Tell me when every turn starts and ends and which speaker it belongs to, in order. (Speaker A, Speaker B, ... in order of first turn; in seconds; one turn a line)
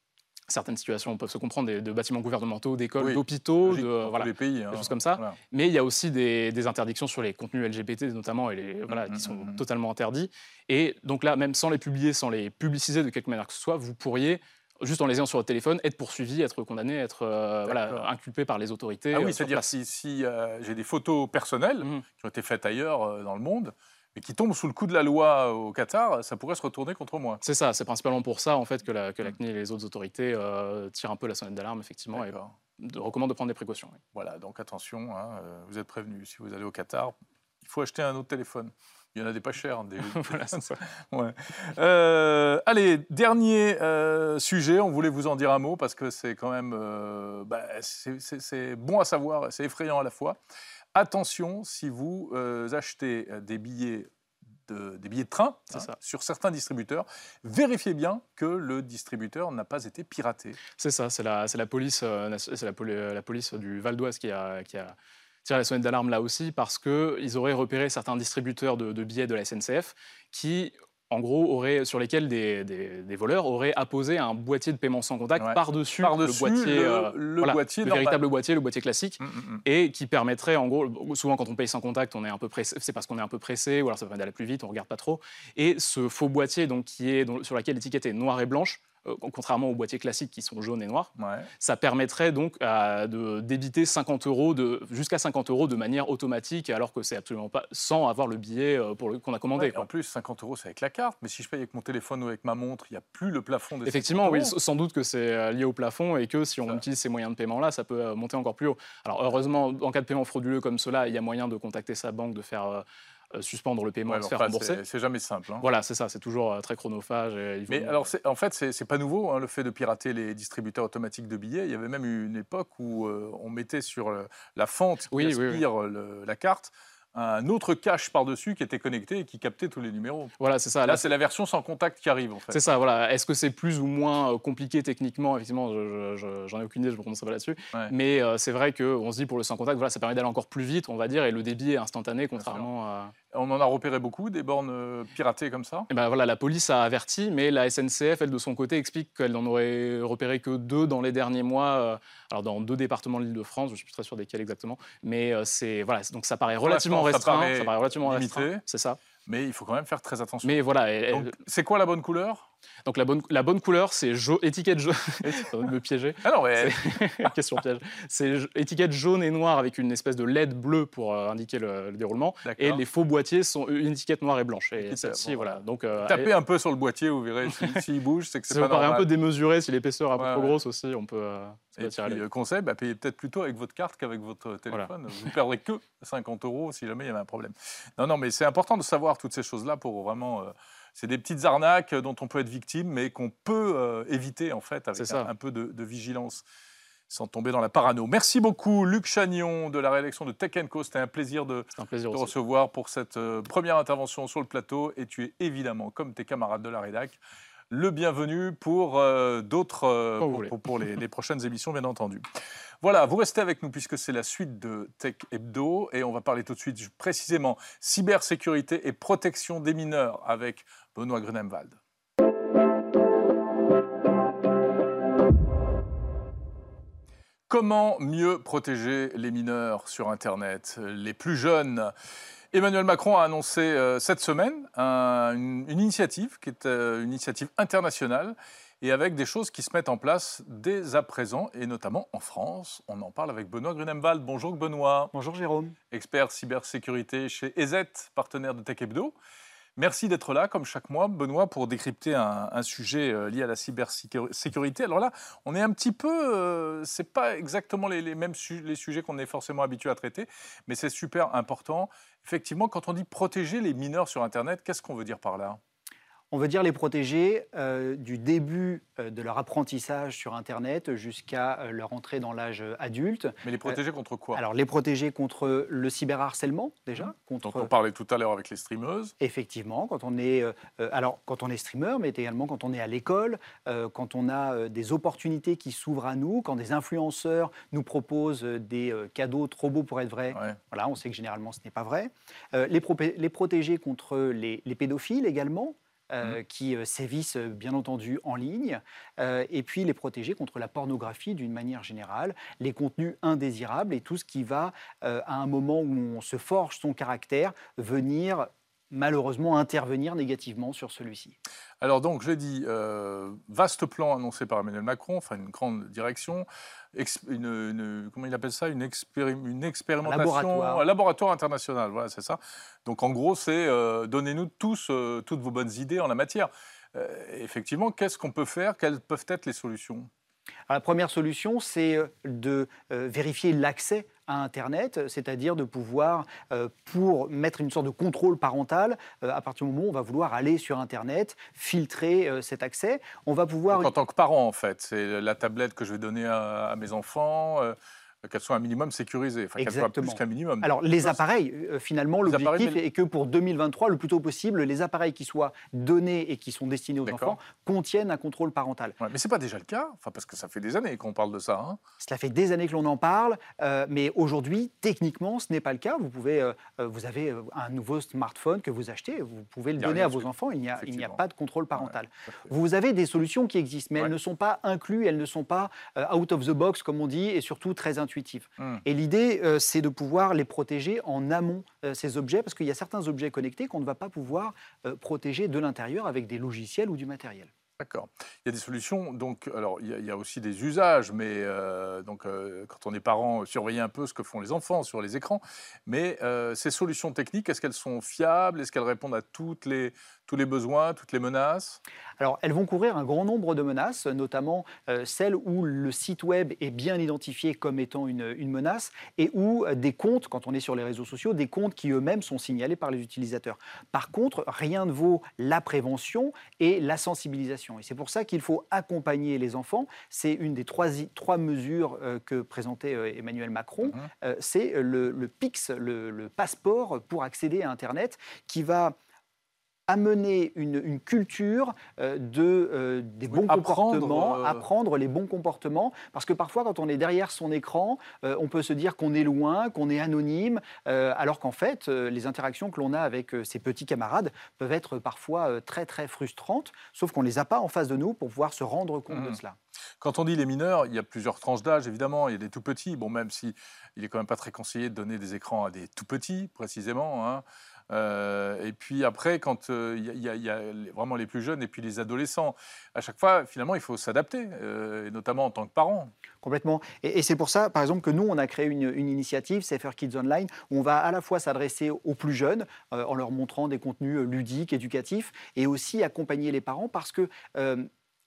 Speaker A: 0.5-19.7
Speaker B: 3.0-5.4
Speaker B: 8.9-9.6
Speaker B: 17.6-18.1
Speaker B: 19.1-27.4
Speaker A: 27.4-34.0
Speaker B: 32.1-32.5
Speaker B: 34.1-50.4
Speaker A: 40.0-40.8
Speaker B: 50.9-54.1
Speaker B: 54.7-60.6
Speaker A: 60.8-99.8
Speaker B: 75.4-78.2
Speaker B: 79.2-79.6
Speaker B: 91.2-91.5
Speaker B: 99.6-104.5
Speaker A: 103.8-114.8
Speaker B: 114.1-115.7
Speaker A: 115.6-118.0
Speaker B: 117.7-130.3
Speaker A: 125.1-125.6
Speaker A: 130.4-131.1
Speaker B: 130.8-132.7
Speaker A: 132.5-143.1
Speaker B: 142.4-142.7
Speaker B: 143.3-145.9
Speaker A: 145.9-159.0
Speaker B: 156.6-158.6
Speaker B: 159.2-160.5
Speaker A: 160.4-161.4
Speaker B: 161.1-162.5
Speaker A: 162.8-176.3
Speaker B: 166.2-166.8
Speaker B: 172.4-172.8
Speaker B: 174.8-179.1
Speaker A: 177.5-177.8
Speaker A: 178.5-182.2
Speaker B: 180.2-180.6
Speaker B: 181.8-196.4
Speaker A: 194.9-195.3
Speaker B: 197.1-207.2
Speaker A: 201.8-202.3
Speaker B: 207.7-212.2
Speaker A: 210.2-210.5
Speaker B: 212.8-221.8
Speaker B: 227.5-231.9
Speaker B: 232.5-245.1
Speaker C: 245.1-245.8
Speaker B: 245.9-249.1
Speaker B: 249.8-265.6
Speaker C: 266.3-273.8
Speaker B: 273.4-274.4
Speaker C: 274.3-277.7
Speaker B: 277.0-279.1
Speaker C: 279.2-311.4
Speaker B: 311.8-330.1
Speaker C: 320.0-320.8
Speaker C: 330.7-343.9
Speaker B: 343.7-351.2
Speaker C: 349.6-359.0
Speaker B: 352.2-352.8
Speaker B: 357.0-357.4
Speaker B: 359.0-361.8
Speaker C: 362.0-387.5
Speaker B: 369.8-371.2
Speaker B: 378.6-378.8
Speaker B: 387.8-401.8
Speaker C: 402.2-428.9
Speaker C: 429.9-449.6
Speaker B: 433.3-434.6
Speaker B: 449.1-449.4
Speaker B: 450.0-466.1
Speaker C: 466.4-477.9